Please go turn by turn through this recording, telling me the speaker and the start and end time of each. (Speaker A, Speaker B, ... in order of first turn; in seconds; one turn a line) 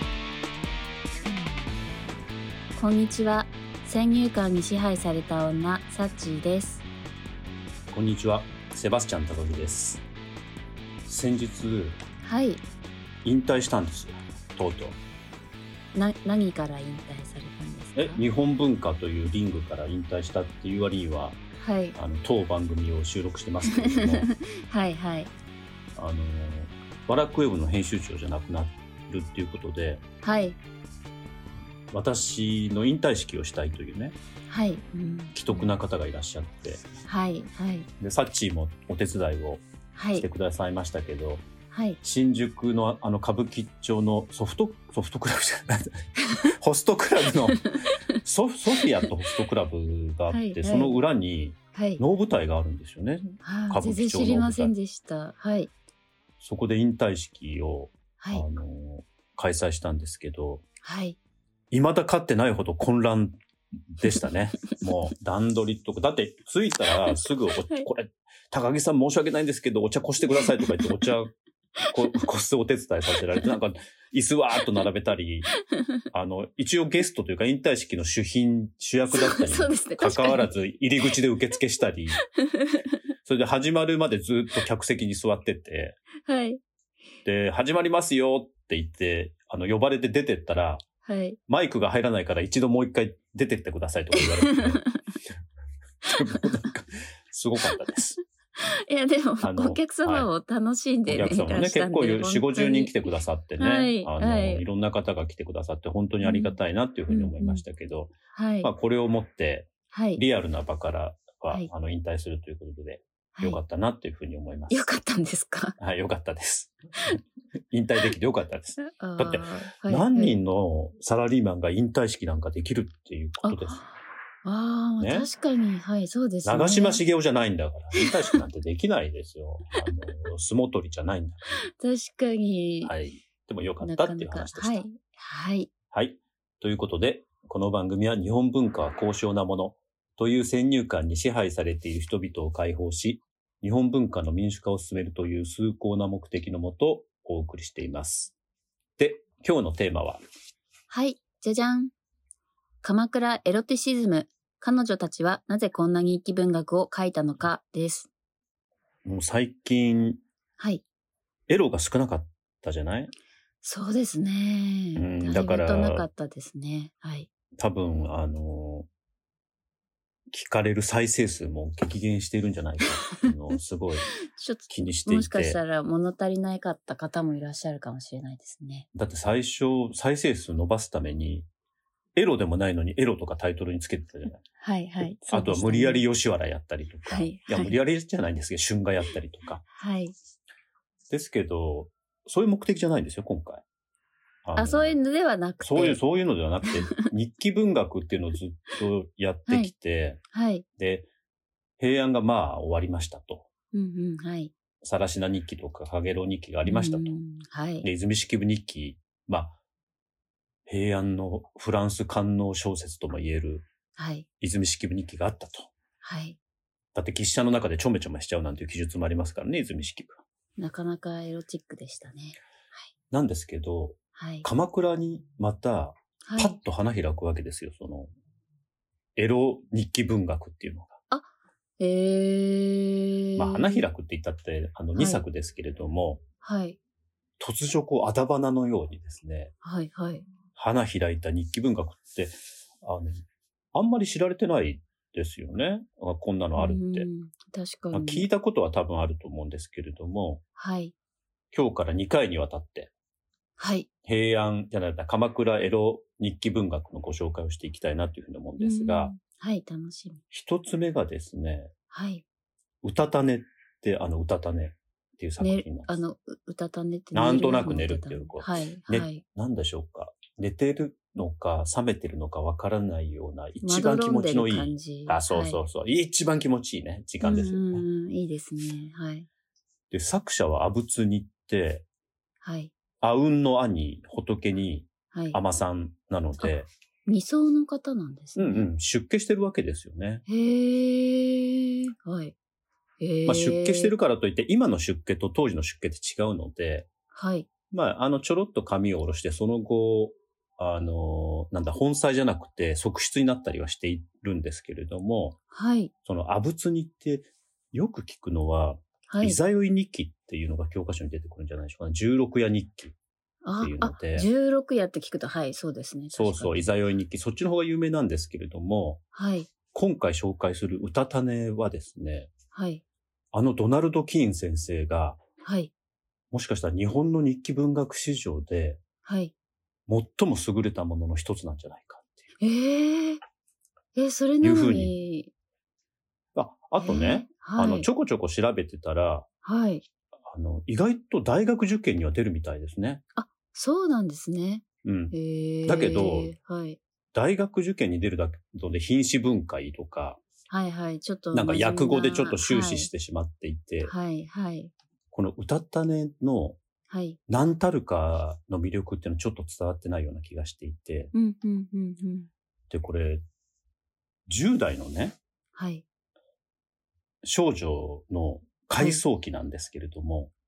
Speaker A: 2.8-6.8
Speaker B: 7.9-10.0
Speaker B: 11.1-12.0
Speaker A: 12.2-12.6
Speaker B: 13.2-15.0
Speaker A: 15.9-18.2
Speaker B: 17.9-21.4
Speaker A: 21.6-22.0
Speaker B: 21.9-24.3
Speaker A: 23.7-25.3
Speaker B: 25.9-30.0
Speaker A: 30.2-30.6
Speaker B: 31.9-34.1
Speaker A: 34.5-35.7
Speaker B: 35.3-36.8
Speaker A: 37.0-37.9
Speaker B: 38.0-39.6
Speaker A: 39.9-40.2
Speaker B: 40.1-41.5
Speaker A: 41.7-42.0
Speaker B: 42.0-54.7
Speaker A: 47.5-48.1
Speaker A: 50.3-51.0
Speaker A: 51.7-52.0
Speaker A: 53.4-55.7
Speaker B: 56.4-60.6
Speaker A: 58.2-58.5
Speaker A: 60.8-61.2
Speaker B: 61.7-63.4
Speaker B: 63.9-71.3
Speaker A: 67.1-67.9
Speaker A: 70.2-71.0
Speaker B: 71.9-75.5
Speaker A: 75.6-76.0
Speaker B: 76.1-82.2
Speaker A: 79.1-81.1
Speaker A: 82.3-83.0
Speaker B: 83.2-86.0
Speaker A: 86.2-86.6
Speaker B: 87.2-90.8
Speaker A: 91.0-91.4
Speaker B: 91.5-94.8
Speaker A: 94.2-95.0
Speaker B: 96.0-98.2
Speaker A: 98.8-104.6
Speaker B: 99.4-100.3
Speaker B: 101.1-114.9
Speaker A: 106.2-106.6
Speaker A: 107.1-107.7
Speaker A: 108.3-108.7
Speaker A: 109.9-110.2
Speaker A: 113.3-113.6
Speaker A: 114.7-115.7
Speaker B: 115.8-117.2
Speaker B: 117.7-123.8
Speaker A: 118.8-120.4
Speaker A: 123.4-127.0
Speaker B: 125.0-125.3
Speaker B: 126.4-131.6
Speaker A: 128.0-128.4
Speaker A: 131.6-132.9
Speaker B: 132.8-134.9
Speaker A: 133.8-135.7
Speaker B: 135.9-148.3
Speaker B: 149.0-150.2
Speaker A: 150.9-151.9
Speaker A: 152.8-158.1
Speaker B: 159.1-160.2
Speaker A: 160.6-160.8
Speaker B: 161.5-163.1
Speaker A: 163.6-167.3
Speaker B: 164.9-166.1
Speaker B: 167.6-168.9
Speaker B: 170.3-174.1
Speaker A: 174.0-178.9
Speaker B: 174.7-175.6
Speaker B: 178.9-181.5
Speaker B: 182.2-184.4
Speaker A: 184.6-186.0
Speaker B: 185.2-189.6
Speaker A: 187.1-187.8
Speaker A: 189.8-190.2
Speaker B: 191.1-193.6
Speaker B: 194.4-195.0
Speaker A: 194.5-196.0
Speaker B: 195.6-200.2
Speaker A: 196.7-197.1
Speaker A: 199.5-199.7
Speaker A: 200.3-200.6
Speaker B: 200.8-201.1
Speaker B: 201.8-203.5
Speaker A: 203.7-204.5
Speaker B: 204.8-207.2
Speaker A: 206.6-207.9
Speaker B: 207.8-209.6
Speaker B: 210.7-213.7
Speaker A: 213.9-214.2
Speaker B: 214.4-215.7
Speaker A: 216.0-216.4
Speaker B: 216.9-220.2
Speaker A: 220.6-222.9
Speaker B: 223.1-228.1
Speaker A: 224.1-224.5
Speaker A: 226.2-226.6
Speaker B: 229.2-231.0
Speaker A: 231.1-233.8
Speaker B: 233.4-236.2
Speaker A: 234.9-235.2
Speaker A: 236.4-236.8
Speaker B: 237.4-239.5
Speaker A: 239.6-240.3
Speaker B: 240.5-243.1
Speaker B: 243.7-247.1
Speaker A: 246.6-248.3
Speaker B: 247.9-250.4
Speaker A: 250.6-250.9
Speaker B: 251.5-252.9
Speaker A: 253.6-253.9
Speaker B: 254.0-259.1
Speaker A: 258.6-260.2
Speaker B: 260.3-261.7
Speaker A: 261.9-262.2
Speaker B: 262.8-266.0
Speaker A: 265.4-269.2
Speaker B: 267.1-277.9
Speaker A: 273.6-275.6
Speaker A: 277.2-279.3
Speaker B: 279.9-281.8
Speaker A: 282.4-282.7
Speaker B: 283.0-286.7
Speaker A: 285.1-285.4
Speaker A: 286.4-288.7
Speaker B: 288.4-290.2
Speaker A: 290.2-292.3
Speaker A: 293.0-293.9
Speaker B: 293.2-296.9
Speaker A: 297.1-297.5
Speaker B: 297.7-305.4
Speaker A: 305.5-305.9
Speaker B: 306.1-312.9
Speaker A: 309.1-309.4
Speaker A: 313.4-316.8
Speaker B: 313.6-314.3
Speaker B: 316.1-319.0
Speaker A: 319.1-319.5
Speaker B: 319.7-322.3
Speaker A: 322.5-322.8
Speaker B: 323.3-325.2
Speaker A: 325.4-325.7
Speaker B: 326.3-328.8
Speaker A: 329.0-329.3
Speaker B: 329.9-332.2
Speaker A: 332.4-333.2
Speaker A: 333.9-335.3
Speaker B: 334.4-334.9
Speaker B: 336.3-339.3
Speaker A: 336.8-337.9
Speaker A: 339.4-339.8
Speaker B: 340.3-343.0
Speaker A: 343.1-346.8
Speaker B: 344.8-345.1
Speaker B: 345.6-346.3
Speaker B: 347.1-350.2
Speaker A: 350.5-352.9
Speaker B: 351.3-353.9
Speaker A: 353.8-354.7
Speaker B: 355.1-356.6
Speaker A: 356.9-357.2
Speaker B: 357.3-361.1
Speaker A: 361.1-362.3
Speaker B: 362.7-363.2
Speaker B: 364.3-365.2
Speaker A: 365.5-365.8
Speaker B: 367.2-370.3
Speaker A: 368.8-369.0